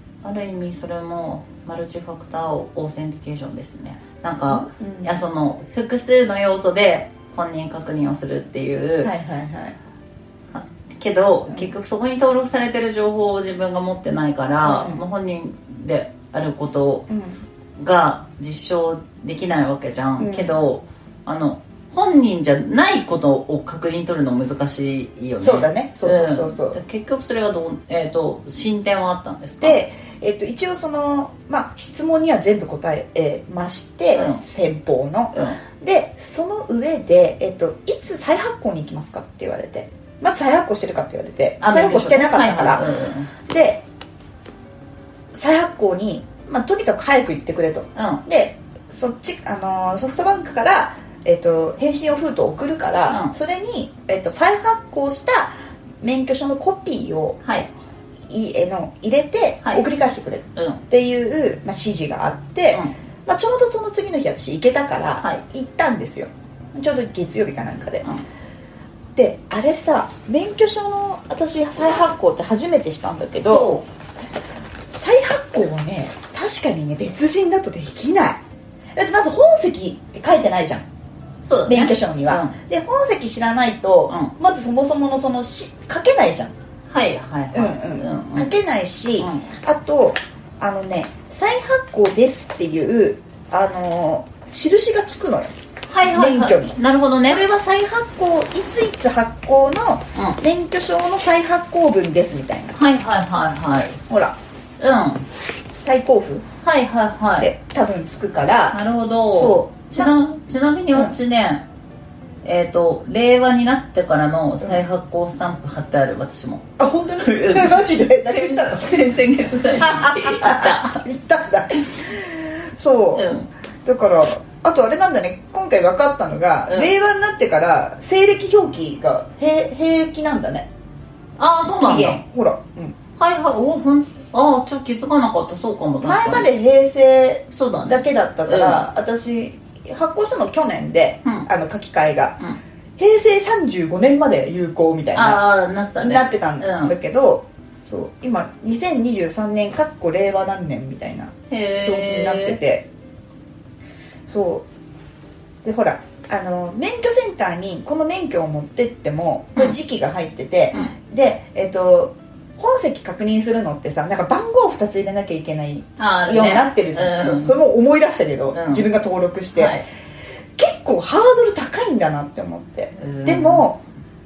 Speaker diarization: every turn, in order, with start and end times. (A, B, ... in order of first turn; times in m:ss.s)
0:00.2-0:09.1 A
0:04.5-0:05.1 B
0:09.0-0:09.8 B
0:10.5-0:17.0 A
0:14.6-0:15.0 B
0:17.1-0:17.4 B
0:17.8-0:29.8 A
0:20.2-0:20.6 B
0:25.4-0:26.8 B
0:29.6-0:42.9 B
0:34.1-0:34.4 A
0:35.3-0:35.6 A
0:41.6-0:43.3 A
0:43.5-0:43.8 B
0:45.3-0:57.4 B
0:48.0-0:48.2 A
0:53.1-0:53.4 A
0:57.4-0:57.7 A
0:58.3-1:08.0 B
1:00.6-1:00.8 A
1:09.2-1:13.7 B
1:13.5-1:13.8 A
1:14.9-1:18.4 B
1:19.0-1:20.8 B
1:21.4-1:22.6 A
1:21.7-1:26.5 B
1:26.9-1:28.5 A
1:27.5-1:42.8 B
1:29.2-1:29.4 A
1:35.9-1:37.4 A
1:42.7-1:44.0 A
1:44.1-1:44.4 B
1:44.8-1:45.3 A
1:45.8-1:46.4 B
1:46.6-1:47.5 A
1:47.4-1:48.8 B
1:48.7-1:51.6 A
1:49.3-1:50.1 B
1:52.4-1:56.7 A
1:56.8-1:58.9 B
1:57.2-2:01.0 A
1:59.7-2:03.3 B
2:03.2-2:03.5 A
2:03.8-2:10.7 B
2:06.7-2:07.0 A
2:11.4-2:12.2 A
2:11.8-2:13.0 B
2:13.2-2:16.5 A
2:16.0-2:22.4 B
2:17.5-2:18.9 A
2:23.0-2:25.4 B
2:25.2-2:27.0 A
2:26.0-2:32.9 B
2:31.5-2:32.6 A
2:34.3-2:34.6 B
2:35.6-2:49.8 B
2:46.0-2:47.6 A
2:48.5-2:48.9 A
2:49.6-2:49.8 A
2:50.6-2:53.8 B
2:53.0-2:53.7 A